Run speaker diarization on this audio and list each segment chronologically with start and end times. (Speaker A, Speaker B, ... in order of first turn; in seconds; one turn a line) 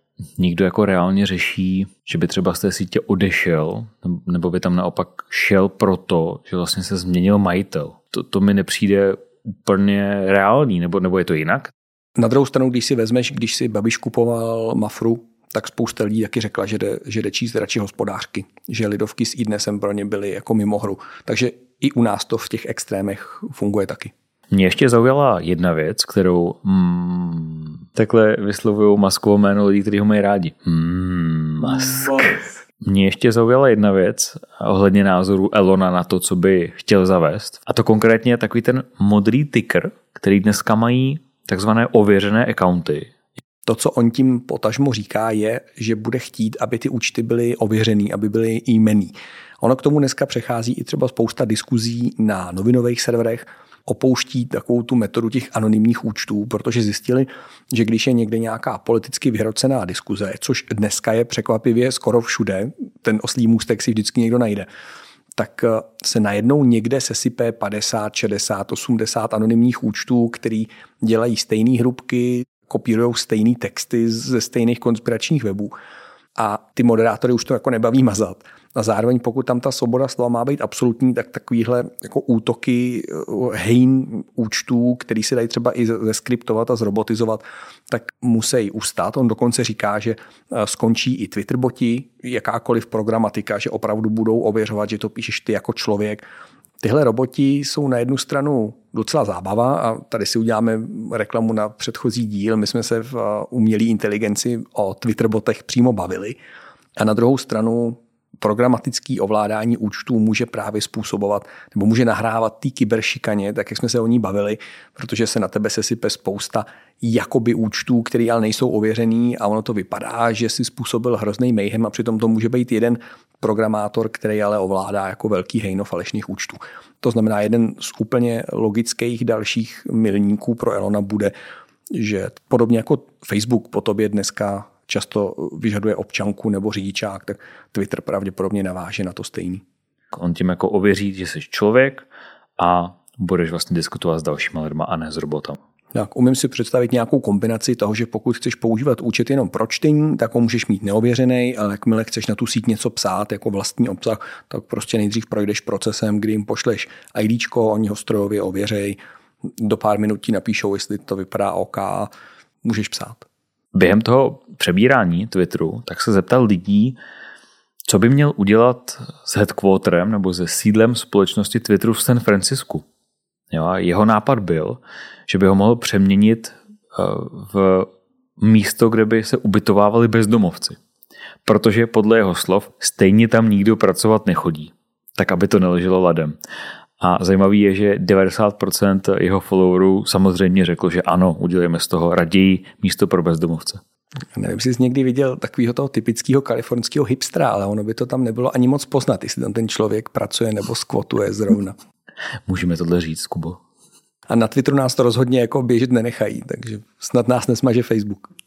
Speaker A: 0.4-11.7
Speaker B: 12.2-24.1
Speaker A: 24.5-43.1
Speaker B: 43.6-64.7
Speaker B: 65.3-75.7
Speaker B: 76.3-96.2
Speaker B: 96.8-106.4
Speaker B: 107.0-131.3
Speaker B: 131.9-139.6
Speaker A: 140.1-142.1
Speaker A: 142.6-145.6
Speaker B: 145.9-159.0
Speaker B: 159.6-162.1
Speaker B: 162.6-163.2
Speaker A: 163.7-167.0
Speaker A: 167.9-172.8
Speaker A: 173.5-180.8
Speaker A: 181.4-186.4
Speaker A: 187.0-193.8
Speaker B: 194.3-201.8
Speaker A: 202.4-203.6
Speaker B: 204.3-208.3